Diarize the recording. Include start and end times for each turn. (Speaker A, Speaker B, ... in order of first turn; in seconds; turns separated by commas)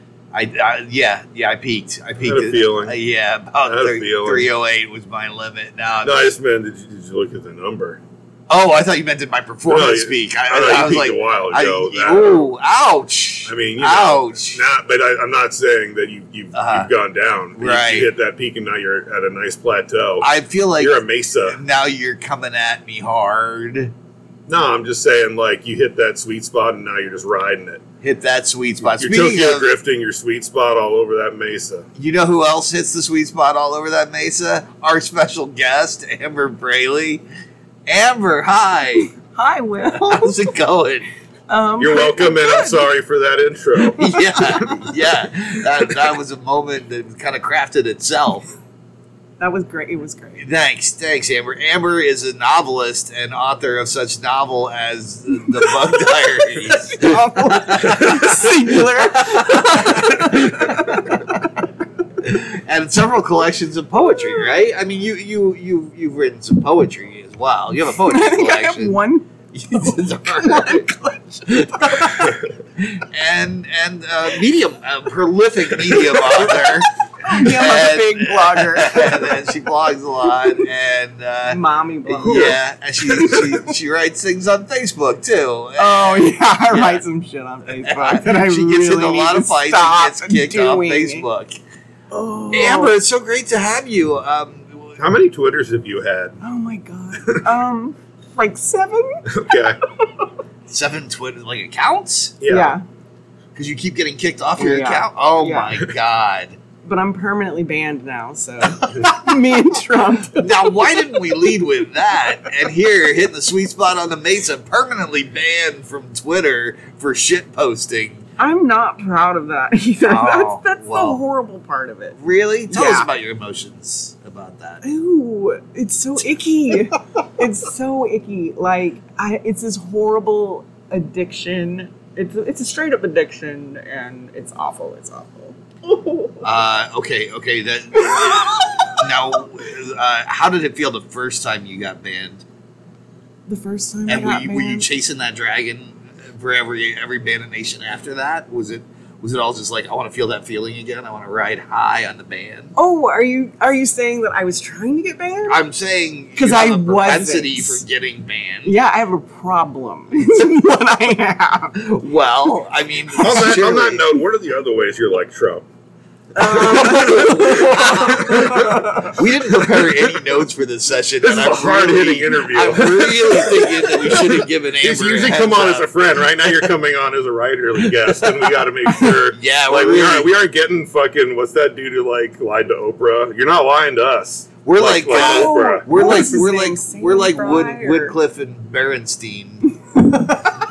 Speaker A: 0.3-6.3, Speaker B: 2.2-2.9, Speaker B: 3.6-4.5, Speaker B: 6.0-8.0, Speaker A: 8.5-14.6, Speaker B: 9.7-12.5, Speaker B: 13.4-21.6, Speaker A: 16.5-16.9, Speaker A: 17.6-18.1, Speaker A: 20.2-23.9, Speaker B: 24.5-27.8, Speaker A: 28.0-29.7, Speaker B: 28.9-31.9, Speaker A: 32.0-37.2, Speaker A: 37.9-39.1, Speaker C: 39.2-40.5, Speaker A: 39.9-41.1, Speaker C: 41.5-42.9, Speaker B: 41.8-44.6, Speaker A: 44.0-48.5, Speaker C: 44.0-44.8, Speaker C: 49.4-50.4, Speaker A: 50.4-60.1, Speaker C: 56.6-61.6, Speaker A: 62.2-69.0, Speaker C: 68.0-72.3, Speaker A: 69.5-70.9, Speaker A: 71.5-87.0, Speaker C: 77.2-79.4, Speaker C: 81.5-83.7, Speaker B: 82.3-82.5, Speaker C: 85.8-91.2, Speaker A: 87.7-91.6, Speaker C: 92.1-93.0, Speaker A: 92.5-95.0, Speaker B: 95.0-96.4, Speaker C: 96.4-99.6, Speaker B: 99.3-99.8, Speaker A: 100.7-102.4, Speaker B: 102.4-102.8, Speaker C: 102.5-102.8, Speaker A: 103.5-106.6, Speaker C: 104.6-105.8, Speaker C: 106.8-111.2, Speaker A: 110.3-118.2, Speaker C: 118.4-122.2, Speaker A: 120.0-121.2, Speaker A: 122.2-124.8, Speaker C: 122.7-123.1, Speaker C: 124.8-136.4, Speaker A: 136.4-142.4, Speaker C: 138.0-138.9, Speaker C: 143.5-144.9, Speaker A: 144.1-152.7, Speaker C: 152.8-155.6, Speaker A: 155.5-158.8, Speaker C: 156.3-157.8, Speaker C: 158.6-161.9, Speaker A: 161.7-164.2, Speaker B: 163.2-165.7, Speaker C: 166.3-169.2, Speaker B: 166.5-168.8, Speaker A: 166.5-176.6, Speaker B: 171.2-185.8, Speaker A: 177.8-178.3, Speaker A: 179.2-180.3, Speaker A: 184.6-190.3, Speaker C: 185.1-188.1